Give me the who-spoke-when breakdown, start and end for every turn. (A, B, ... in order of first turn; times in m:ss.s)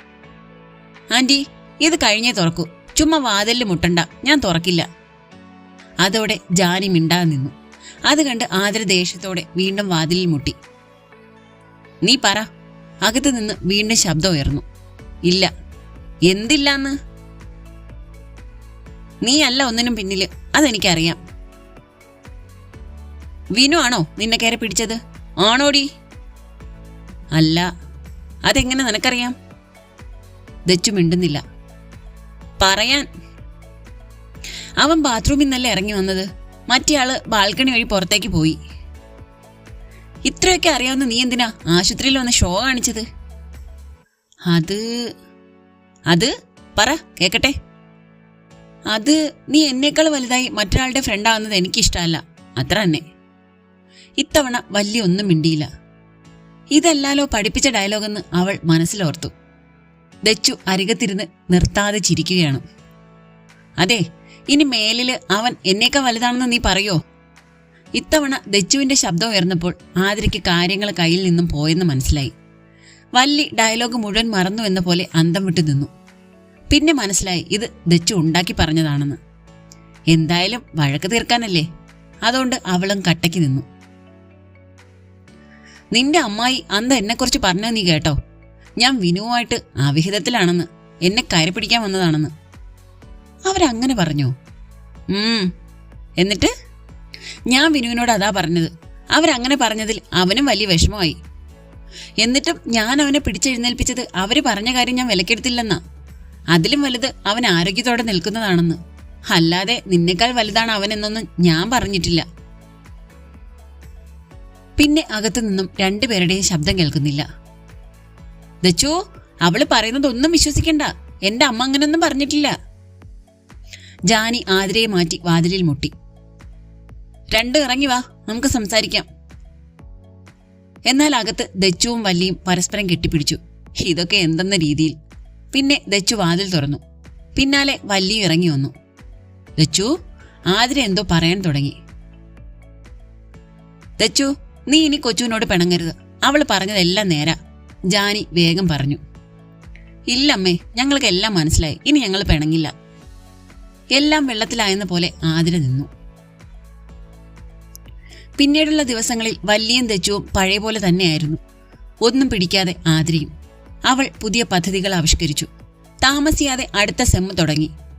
0:01.1-0:04.9 A
0:06.0-0:07.5 A
0:08.1-0:10.6 A
0:12.1-0:12.5 A
0:13.0-0:14.6 A
0:16.3-0:17.0 A
0:19.2-0:21.2 A
0:23.6-0:25.9 A
0:27.4-0:27.7 A
0:28.5-0:29.4 A
0:30.7-0:31.4 A
0:32.6-0:33.1 A
0:34.8-0:38.6 A
0:40.3-0:43.1 A
0:44.5-0:44.8 A
0:46.1-0:47.5 A
0:48.9-0:53.0 A
0:54.2-0:55.7 A
0:56.7-0:59.3 A
1:00.3-1:02.6 A
1:03.8-1:07.0 A
1:08.0-1:12.3 A
1:13.2-1:15.9 A
1:16.7-1:19.2 A
1:20.1-1:21.7 A
1:22.3-1:23.6 A
1:25.9-1:28.2 A
1:28.8-1:32.3 A
1:33.5-1:34.3 A
1:35.1-1:35.5 A
1:36.2-1:36.5 A
1:37.5-1:41.2 A
1:42.2-1:45.8 A
1:46.5-1:48.8 A
1:49.3-1:52.2 A
1:54.8-1:57.2 A
1:58.6-2:02.5 A
2:04.1-2:05.9 A
2:07.3-2:09.1 A
2:10.9-2:15.0 A
2:15.5-2:16.8 A
2:17.4-2:18.7 A
2:19.6-2:19.9 A
2:20.5-2:21.8 A
2:24.0-2:27.4 A
2:27.9-2:29.0 A
2:30.1-2:32.7 A
2:34.0-2:35.9 A
2:38.4-2:41.4 A
2:42.0-2:43.3 A
2:43.9-2:45.5 A
2:46.0-2:47.7 A